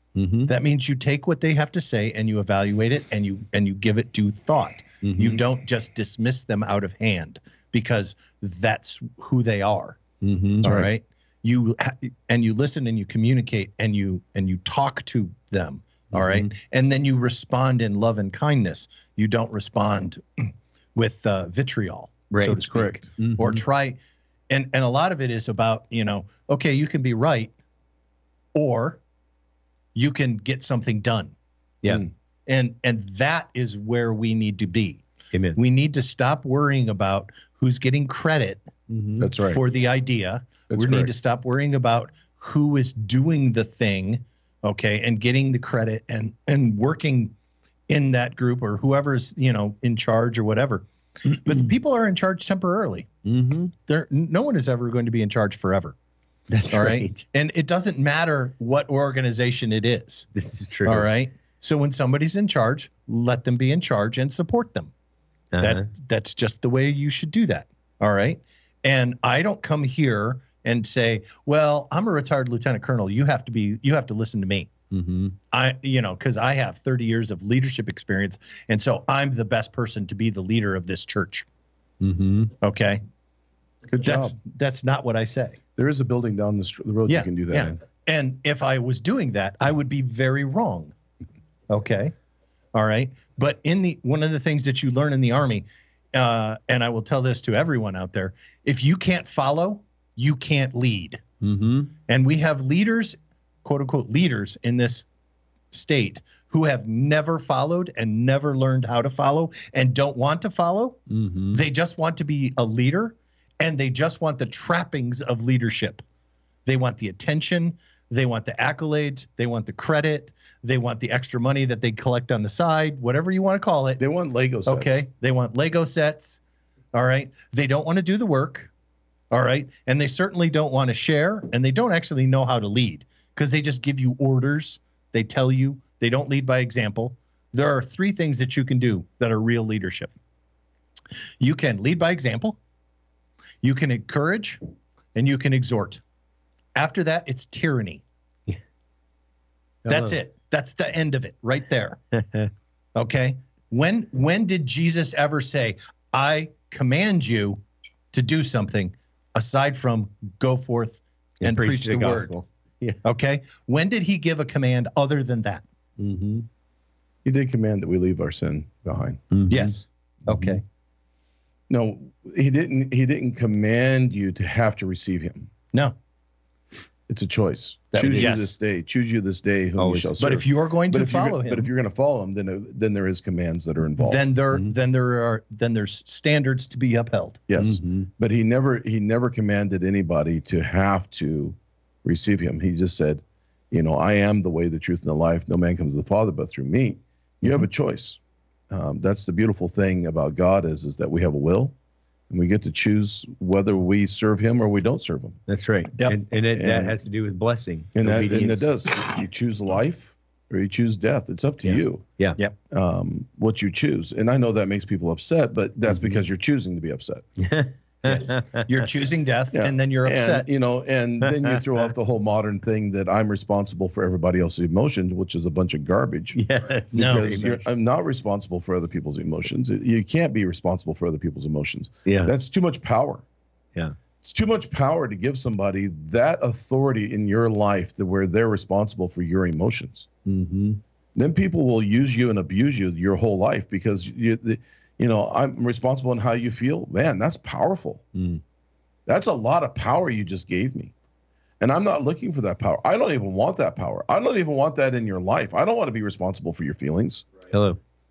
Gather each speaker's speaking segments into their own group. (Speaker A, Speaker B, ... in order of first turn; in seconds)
Speaker A: 0.1-0.5, 5.0-5.4, 10.2-10.7, 16.1-16.5, 22.3-22.6, 23.2-23.6, 35.3-35.6, 38.9-39.3, 51.3-51.6, 53.2-53.7, 56.5-57.2, 60.3-61.1, 65.5-65.9, 74.9-75.3, 82.0-82.5, 101.4-101.9, 111.1-111.6, 149.8-150.1, 152.1-152.5, 161.4-163.0, 166.0-166.4, 169.3-169.7, 170.3-170.6, 177.9-178.4, 179.8-180.2, 187.6-188.1, 205.5-208.7, 211.6-212.4, 215.9-216.2, 217.4-218.7, 226.3-227.5, 232.1-232.3, 240.2-240.8, 248.1-248.4, 257.5-257.8
Speaker B: 0.5-10.0, 10.6-24.0, 24.5-27.5, 28.5-29.0, 29.9-31.3, 32.5-35.0, 35.5-38.6, 39.4-47.3, 47.9-53.1, 53.9-56.0, 56.7-60.3, 60.9-64.9, 65.6-74.7, 75.5-81.5, 82.6-83.0, 84.0-85.6, 87.1-90.9, 91.7-92.1, 92.7-101.2, 102.1-105.0, 105.7-116.0, 116.7-124.0, 124.7-126.4, 126.9-128.7, 129.3-140.1, 141.4-142.6, 143.6-144.6, 145.1-146.0, 146.7-148.0, 149.9-152.0, 152.9-157.6, 158.1-162.3, 163.0-165.6, 169.5-170.6, 178.2-178.5, 180.2-181.7, 184.0-187.4, 218.0-220.5, 226.9-227.7
Speaker C: 10.6-10.9, 22.6-23.0, 39.2-39.6, 40.7-41.1, 83.9-84.3, 85.8-87.8, 124.0-125.0, 167.2-169.2, 171.7-175.5, 177.1-184.2, 187.5-198.2, 198.7-201.7, 202.3-205.4, 206.5-206.9, 207.9-212.0, 212.7-217.2, 219.5-226.4, 226.9-233.2, 234.2-240.1, 241.2-248.0, 249.1-250.9, 251.6-257.3